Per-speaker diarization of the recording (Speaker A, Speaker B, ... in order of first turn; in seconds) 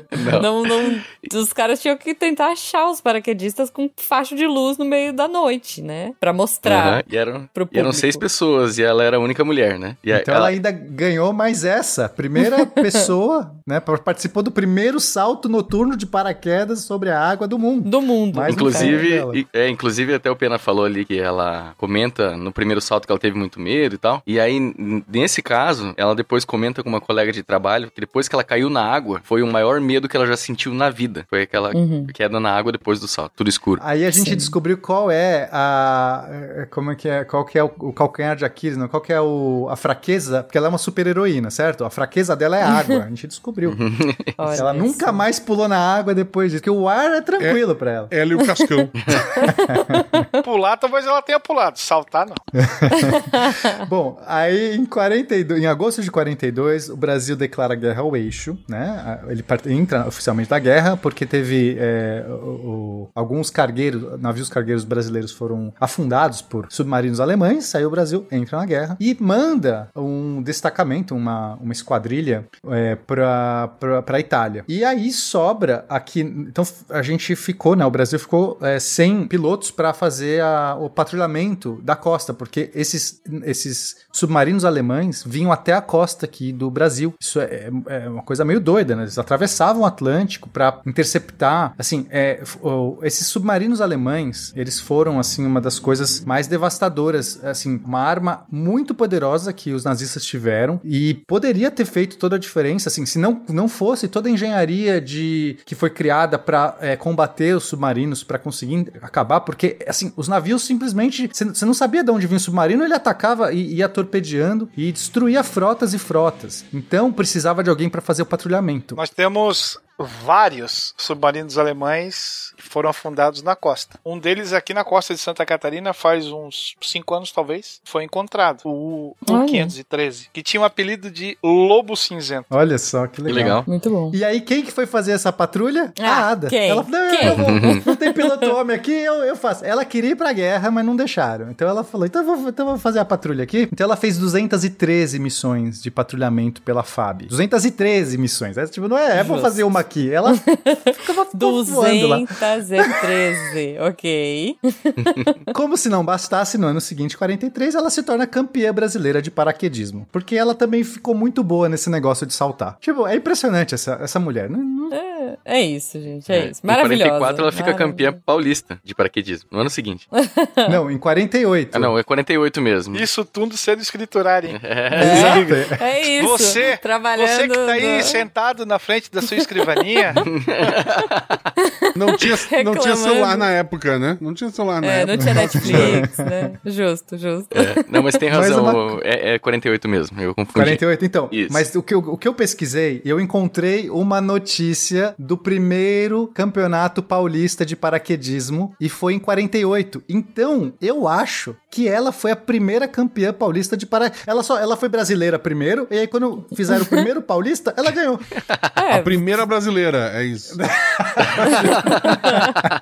Speaker A: 0.1-0.9, 6.6-10.5, 18.5-33.8, 43.6-44.6, 133.2-133.6, 137.2-137.8, 166.3-170.1, 171.7-173.1, 174.5-175.3, 180.3-181.3, 187.5-191.6
Speaker B: 0.4-8.2, 17.8-19.0, 31.7-32.1, 34.1-34.5, 42.6-43.0, 44.4-45.2, 48.4-48.7, 49.4-50.3, 53.0-53.7, 129.3-129.7, 133.7-134.2, 136.0-138.5, 149.1-149.7, 150.3-155.4, 164.9-168.1, 170.2-170.8, 175.0-178.2, 182.3-183.5, 184.8-187.7, 206.7-207.0, 208.8-209.2, 211.8-212.6
Speaker C: 10.1-19.4, 33.8-43.8, 44.5-48.1, 52.6-119.0, 132.5-152.3, 155.5-164.9, 170.7-171.9, 174.9-175.8, 185.2-186.5, 188.3-189.0, 190.5-208.4, 210.6-212.1
Speaker D: 47.4-48.9, 181.9-186.0, 208.9-210.6
Speaker E: 50.4-52.4, 118.9-132.5, 172.9-175.4, 176.2-180.2